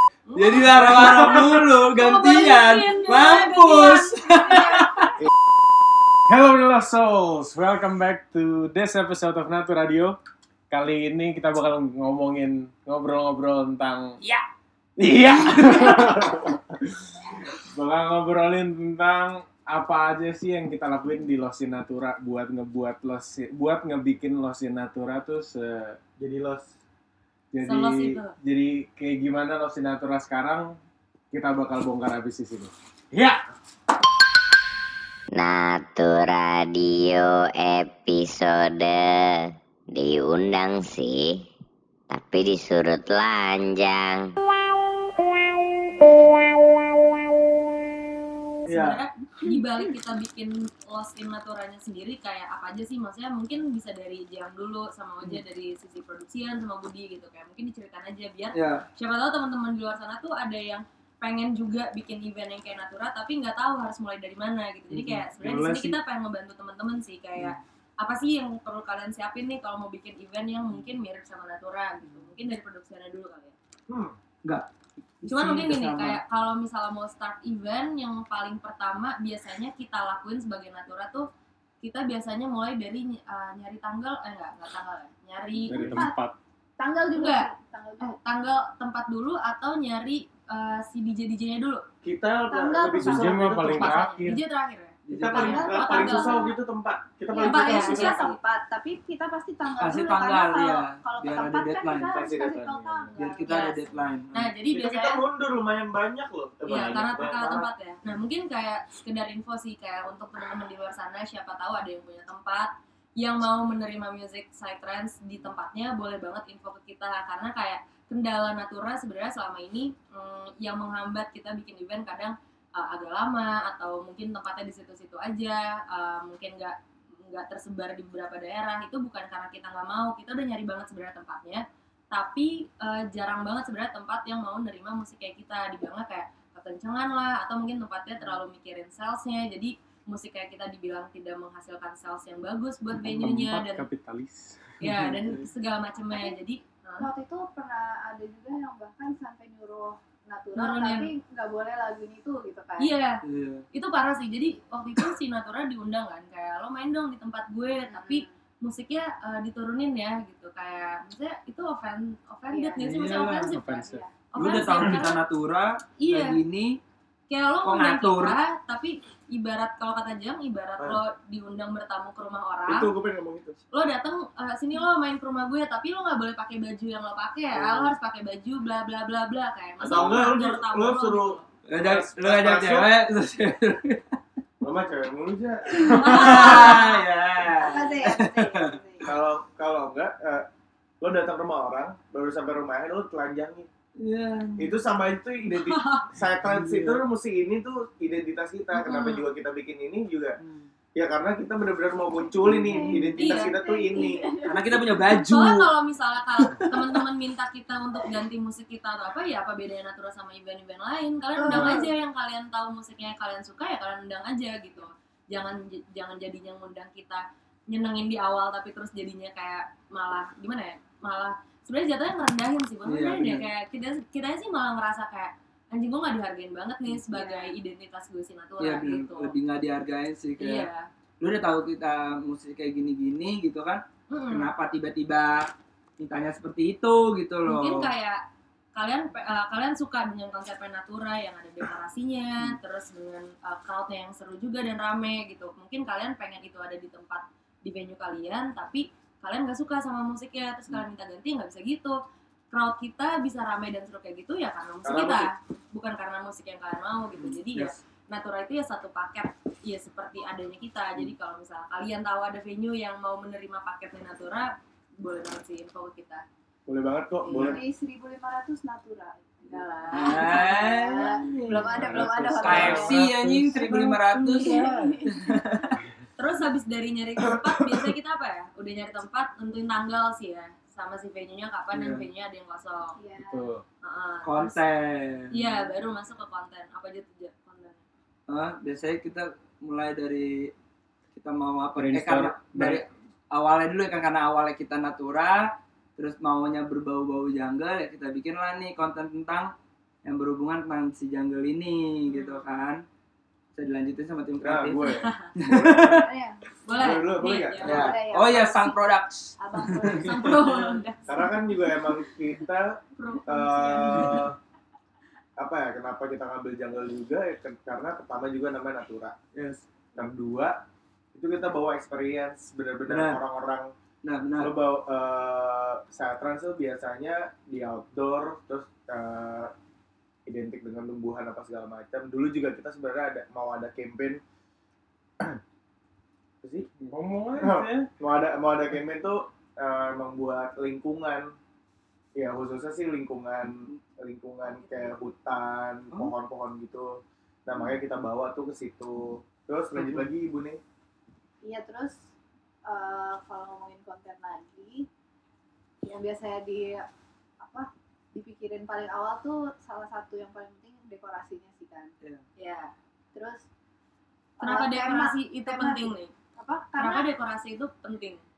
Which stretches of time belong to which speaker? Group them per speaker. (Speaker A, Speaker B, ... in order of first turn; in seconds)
Speaker A: 0.3-5.0, 27.6-28.3, 48.7-73.6, 75.3-81.3, 81.8-85.8, 87.1-91.8, 92.9-96.5, 97.4-98.3, 103.5-103.8, 104.3-105.2, 106.7-143.8, 144.8-147.1, 150.6-151.1, 152.8-153.2, 153.7-163.8, 164.3-165.2, 166.0-166.4, 167.3-172.9, 173.7-181.4, 185.8-186.8, 195.5-196.1, 198.8-199.2, 203.2-203.6, 205.3-229.4, 230.4-230.9, 234.1-234.5, 237.5-238.2, 238.8-252.0, 252.5-266.2, 269.5-270.5, 274.3-274.6, 276.2-283.0, 283.8-284.6, 285.3-287.8, 302.1-302.4, 304.9-305.3, 306.7-308.0, 309.6-311.1, 313.0-314.2, 364.4-366.1, 366.8-368.2
Speaker B: 0.4-5.2, 58.5-58.9, 65.0-65.2, 75.2-76.2, 95.1-96.0, 99.8-102.3, 103.2-104.5, 145.1-145.4, 153.2-153.7, 162.8-163.6, 164.4-166.8, 167.6-168.4, 181.7-184.2, 185.7-188.8, 194.0-194.8, 196.5-197.0, 200.4-200.7, 202.7-203.0, 204.4-205.7, 222.9-223.4, 228.6-230.7, 231.2-237.9, 269.9-275.8, 281.7-282.1, 284.2-285.7, 288.3-290.5, 291.1-299.5, 300.1-302.8, 303.6-306.1, 307.6-310.6, 319.4-319.6, 322.9-323.2, 324.0-324.5
Speaker C: 6.3-10.2, 10.7-14.2, 15.0-16.6, 17.7-26.0, 27.5-30.8, 31.3-33.4, 65.4-66.0, 85.7-86.4, 93.0-94.4, 102.5-103.1, 143.1-144.7, 163.5-164.1, 271.6-273.8, 283.2-283.6, 291.8-292.8, 336.8-337.9
Speaker D: 26.2-26.8, 73.9-74.2, 92.0-94.1, 95.1-98.3, 102.0-102.9, 104.7-107.7, 172.7-173.6, 177.6-177.9, 179.8-182.9, 184.6-186.6, 189.0-190.5, 191.0-193.7, 194.6-200.4, 201.0-204.3, 254.8-255.3, 266.7-267.6, 272.4-272.8, 304.4-306.0, 306.8-307.9, 311.1-314.4, 315.4-319.2, 319.9-320.6, 321.1-323.7, 324.4-329.5, 330.3-334.2, 336.4-336.7, 337.4-341.3, 342.2-350.6
Speaker E: 35.4-41.4, 42.1-44.3
Speaker F: 85.6-86.2, 86.8-88.2, 92.5-93.0, 95.5-96.6, 97.3-104.0, 146.1-146.4, 147.0-152.9, 157.9-158.3, 162.5-164.1, 186.2-187.0, 187.5-189.1, 202.5-205.1, 211.4-211.9, 227.1-227.6, 267.2-273.1, 273.6-275.3, 283.0-283.5, 305.8-306.4, 307.6-308.8, 309.4-310.6, 313.3-314.2, 344.5-344.9, 351.4-352.1, 352.7-354.9, 355.8-356.9, 357.4-363.4, 364.4-367.1